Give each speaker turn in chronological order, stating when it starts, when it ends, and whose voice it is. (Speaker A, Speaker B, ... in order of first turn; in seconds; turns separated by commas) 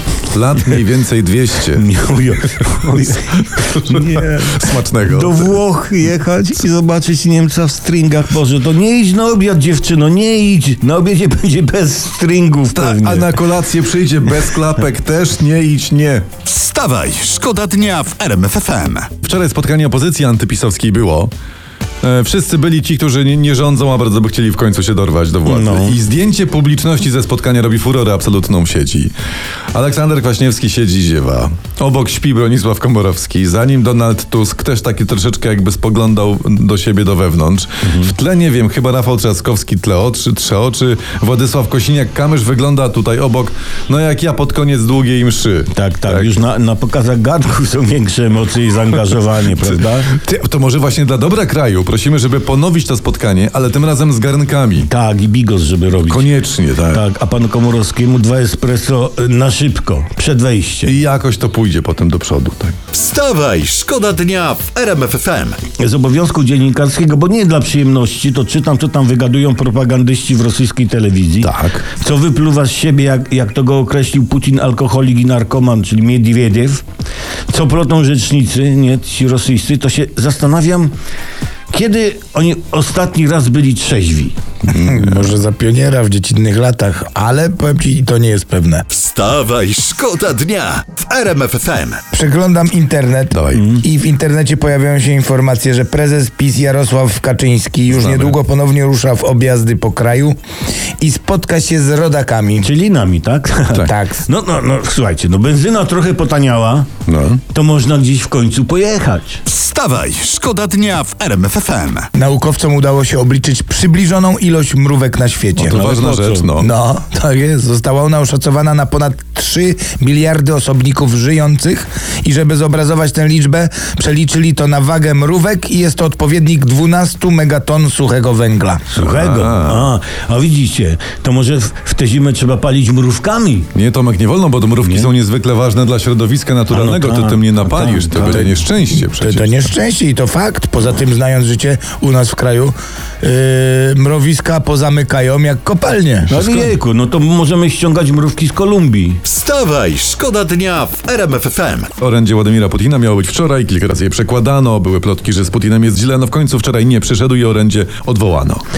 Speaker A: 0.3-1.9, Speaker B: 1.7-13.4, Speaker A: 3.1-5.6, Speaker A: 12.7-16.4, Speaker C: 16.4-19.1, Speaker A: 19.2-21.3, Speaker A: 22.0-29.1, Speaker B: 25.5-26.0, Speaker A: 29.7-46.3, Speaker B: 45.7-50.1, Speaker A: 49.6-54.9, Speaker B: 54.8-56.3, Speaker A: 56.1-57.0, Speaker B: 56.9-61.0, Speaker A: 60.9-62.8, Speaker C: 62.9-65.6, Speaker B: 65.8-76.8, Speaker A: 71.4-71.8, Speaker B: 77.5-80.9, Speaker B: 81.7-84.4, Speaker D: 84.7-88.8, Speaker C: 88.9-92.0, Speaker D: 92.1-100.4, Speaker A: 93.3-93.7, Speaker A: 97.9-98.4, Speaker D: 101.0-102.7, Speaker B: 102.6-106.9, Speaker D: 103.8-104.3, Speaker A: 107.1-107.4, Speaker B: 107.5-109.4, Speaker C: 109.5-112.1, Speaker D: 112.2-116.0, Speaker A: 115.6-116.7, Speaker B: 115.7-116.5, Speaker D: 116.6-128.9, Speaker B: 128.9-133.7, Speaker A: 129.0-129.9, Speaker A: 133.7-139.6, Speaker B: 134.8-135.1, Speaker B: 136.7-138.6, Speaker D: 139.1-146.4, Speaker B: 146.3-149.2, Speaker A: 146.4-146.7, Speaker C: 149.2-151.9, Speaker A: 152.0-158.6